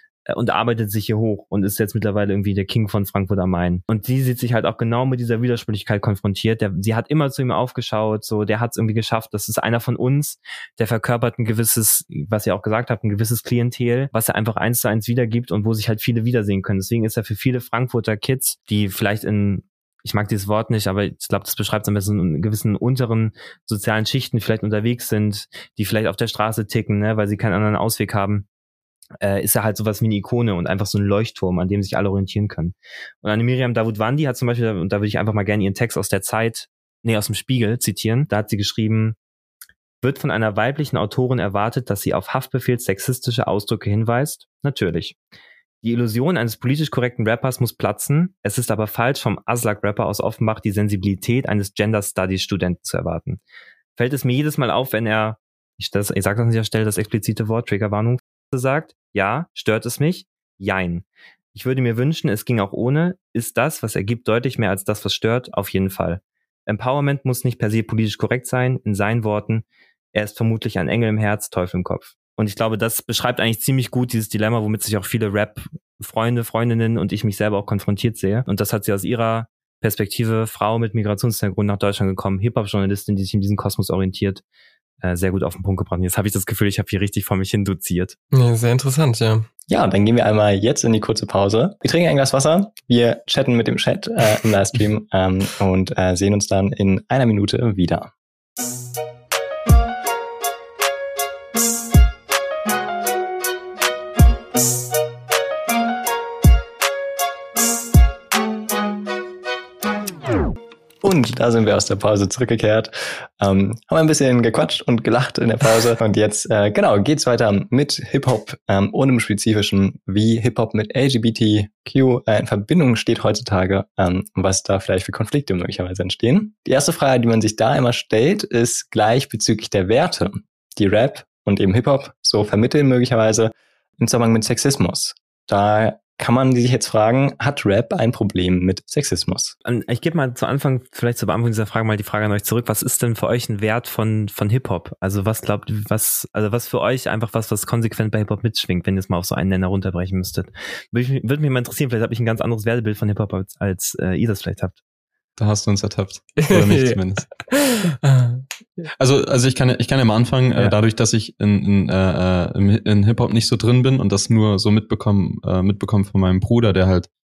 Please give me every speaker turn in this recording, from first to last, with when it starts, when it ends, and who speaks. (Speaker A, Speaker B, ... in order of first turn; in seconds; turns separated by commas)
Speaker A: 0.3-28.4, Speaker A: 29.2-39.1, Speaker A: 40.0-45.1, Speaker A: 45.8-53.4, Speaker A: 54.0-84.4, Speaker A: 85.0-88.2, Speaker B: 88.3-89.5, Speaker C: 89.7-98.1, Speaker C: 111.0-139.5, Speaker A: 139.6-154.8, Speaker D: 155.4-157.3, Speaker B: 156.4-158.8, Speaker D: 159.0-167.1